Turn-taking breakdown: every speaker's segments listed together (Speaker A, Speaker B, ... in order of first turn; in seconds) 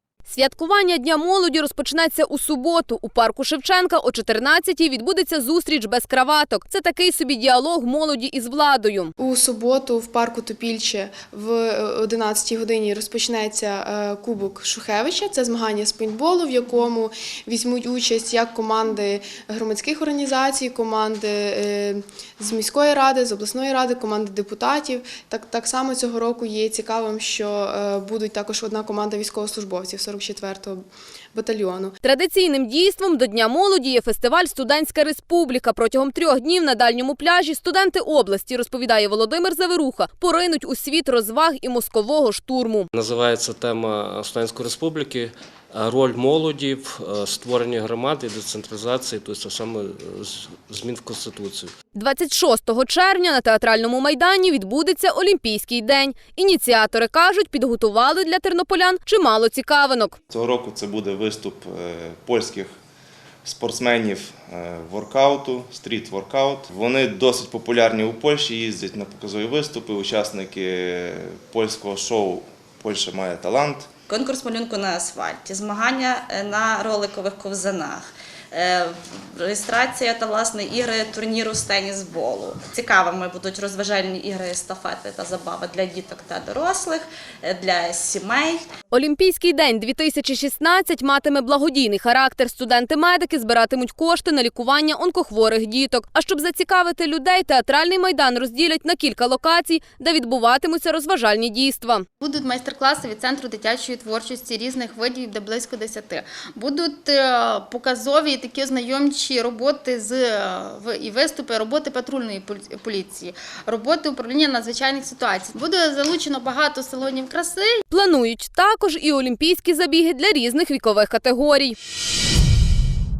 Speaker A: 0.3-9.1, 32.0-42.9, 51.9-60.2, 88.9-102.0, 117.9-121.8
Speaker B: 9.2-31.9
Speaker C: 42.9-51.7
Speaker D: 60.3-62.7, 63.4-73.9
Speaker E: 74.1-88.6
Speaker F: 102.2-117.8